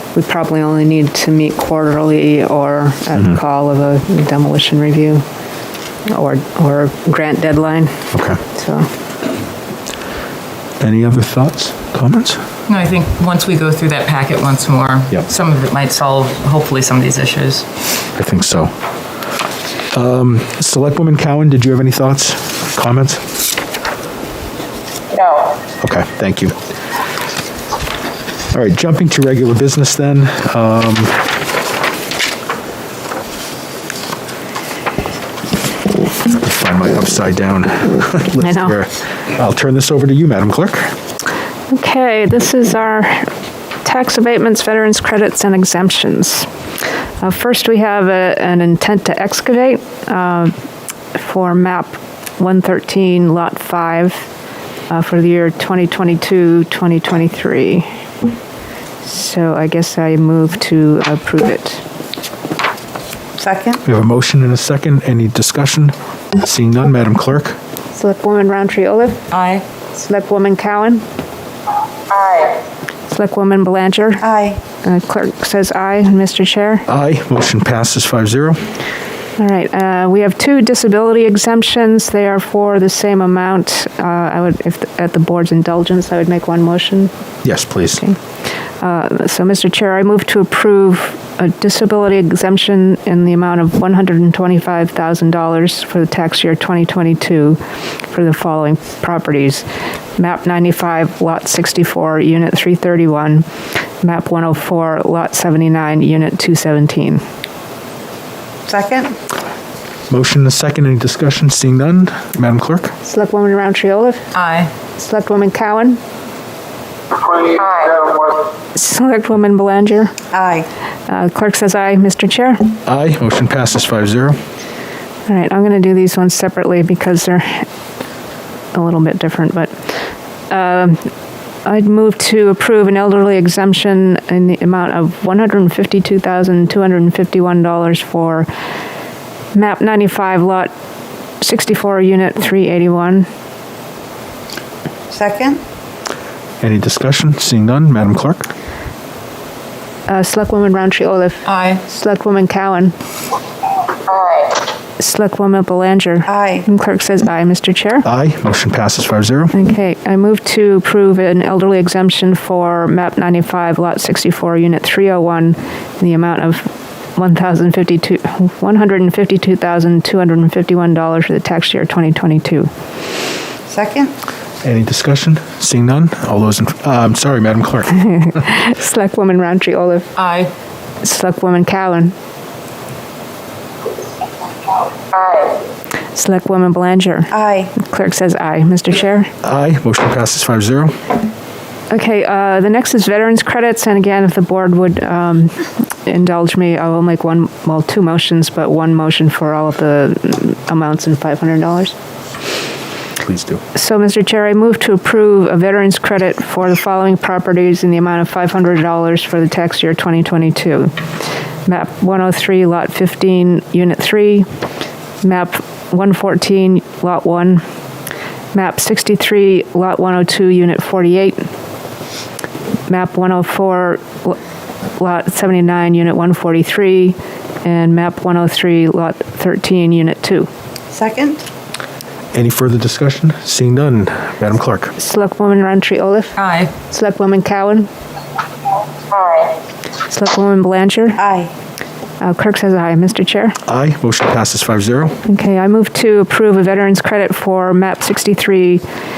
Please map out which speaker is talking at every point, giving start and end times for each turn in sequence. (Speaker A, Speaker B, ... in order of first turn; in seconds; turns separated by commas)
Speaker A: 0.1-5.2, Speaker A: 6.0-8.9, Speaker B: 8.1-8.4, Speaker B: 10.8-12.4, Speaker C: 12.7-17.6, Speaker B: 18.1-18.7, Speaker B: 19.9-23.3, Speaker C: 25.1-25.5, Speaker B: 25.8-26.5, Speaker B: 28.5-31.3, Speaker B: 36.2-40.9, Speaker A: 38.4-38.7, Speaker A: 41.7-43.3, Speaker A: 43.8-46.5, Speaker A: 47.2-50.5, Speaker A: 51.1-54.2, Speaker A: 54.9-57.9, Speaker A: 59.0-61.8, Speaker D: 63.4-63.8, Speaker B: 63.8-67.6, Speaker A: 67.9-69.3, Speaker C: 69.3-69.6, Speaker A: 70.0-71.0, Speaker A: 73.1-74.2, Speaker D: 74.2-74.6, Speaker A: 74.8-76.8, Speaker B: 76.9-78.6, Speaker A: 79.4-87.1, Speaker B: 87.4-88.0, Speaker A: 88.8-99.6, Speaker A: 100.2-103.5, Speaker A: 104.0-107.2, Speaker D: 108.7-109.2, Speaker B: 110.1-112.9, Speaker A: 113.0-114.3, Speaker C: 114.3-114.7, Speaker A: 114.9-116.0, Speaker A: 117.6-118.0, Speaker A: 118.7-120.2, Speaker D: 120.3-120.7, Speaker A: 121.1-122.7, Speaker B: 122.8-124.4, Speaker A: 125.3-127.6, Speaker A: 128.7-129.7, Speaker A: 130.5-131.1, Speaker A: 131.6-138.5, Speaker A: 139.5-140.7, Speaker A: 141.4-143.3, Speaker D: 145.1-145.6, Speaker B: 146.6-148.5, Speaker A: 150.1-152.9, Speaker C: 151.4-151.8, Speaker A: 155.0-158.1, Speaker D: 156.3-156.7, Speaker B: 158.0-159.5, Speaker A: 159.5-172.7, Speaker D: 173.7-174.1, Speaker B: 174.6-178.0, Speaker A: 178.0-180.1, Speaker C: 180.2-180.5, Speaker A: 181.0-182.1, Speaker A: 186.1-189.3, Speaker D: 187.3-187.7, Speaker B: 189.4-190.9, Speaker A: 191.9-201.9, Speaker B: 203.2-203.6, Speaker A: 203.7-210.9, Speaker A: 211.7-214.5, Speaker A: 215.2-217.6, Speaker A: 218.5-221.5, Speaker A: 222.9-224.4, Speaker A: 225.0-230.5, Speaker D: 230.9-231.4, Speaker B: 232.3-234.9, Speaker A: 235.0-237.9, Speaker C: 236.3-236.7, Speaker A: 240.1-241.2, Speaker D: 241.2-241.5, Speaker A: 242.2-243.6, Speaker B: 243.7-245.2, Speaker A: 245.2-248.8